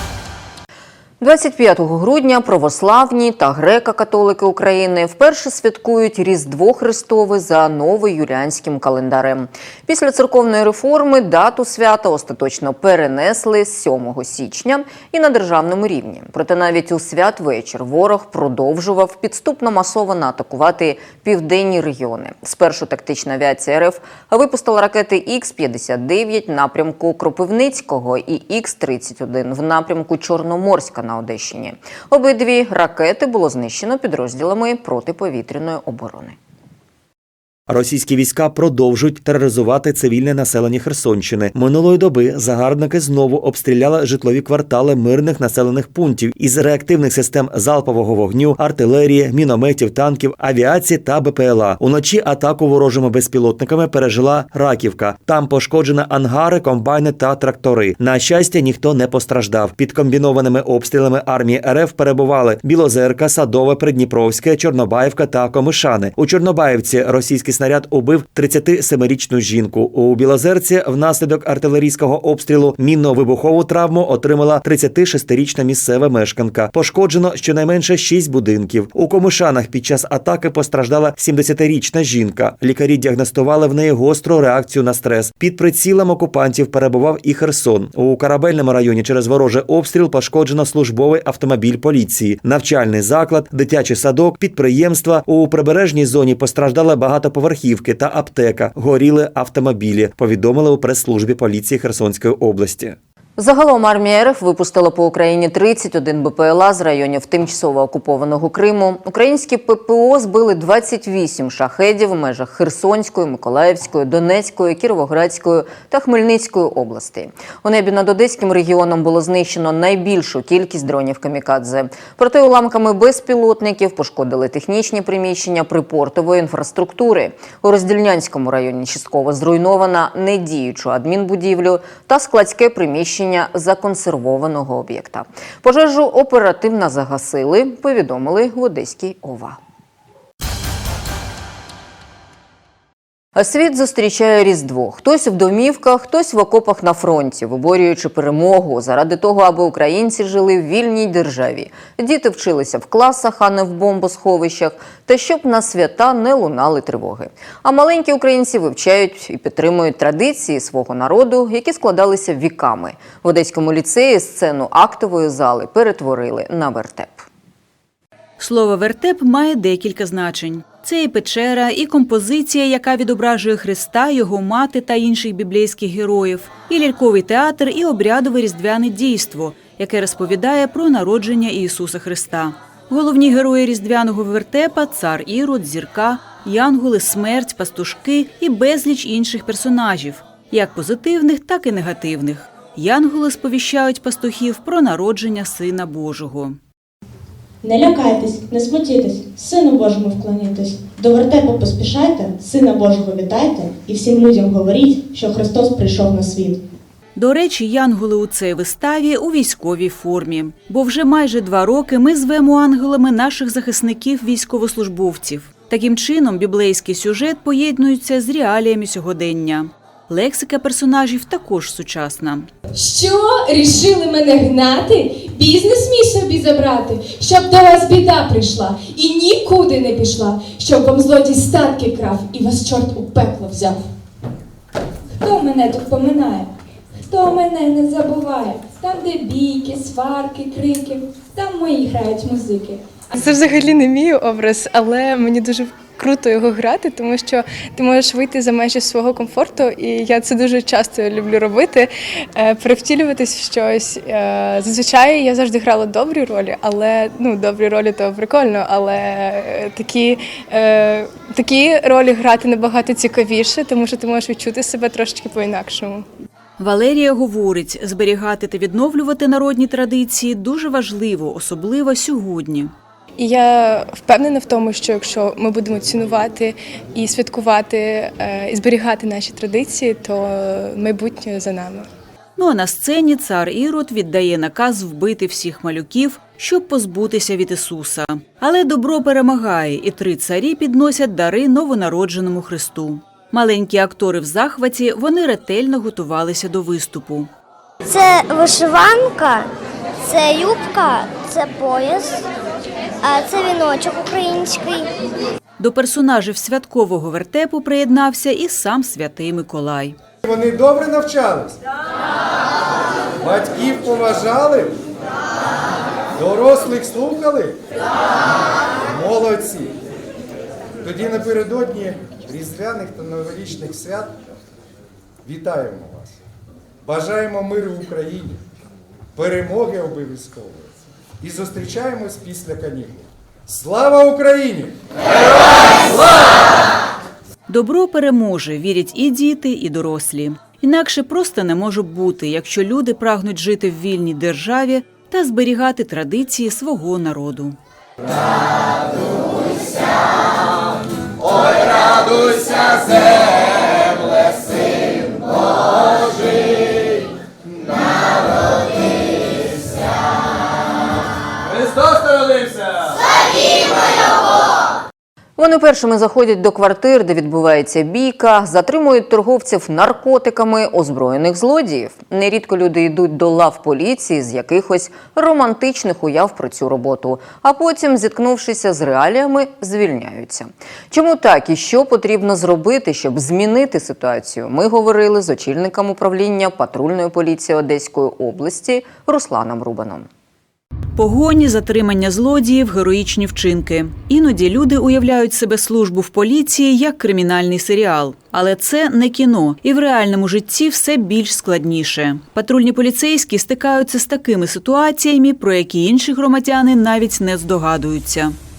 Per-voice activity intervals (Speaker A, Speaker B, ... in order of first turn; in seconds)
Speaker A: 1.2-36.4, 103.4-139.6, 143.3-167.3, 365.4-390.1
Speaker B: 37.7-103.0
Speaker C: 168.4-196.6, 207.2-222.5, 266.6-272.7, 282.4-297.3, 305.6-310.0, 337.5-347.6, 391.0-408.4
Speaker D: 197.6-206.6
Speaker E: 222.8-233.8, 235.2-242.8
Speaker F: 243.2-266.1, 273.2-281.9
Speaker G: 297.9-299.5, 300.0-302.2, 303.0-304.9
Speaker H: 310.2-311.6, 313.2-314.8, 316.2-317.6, 318.9-319.8, 320.8-324.2, 325.2-326.2, 326.8-328.4, 329.2-334.7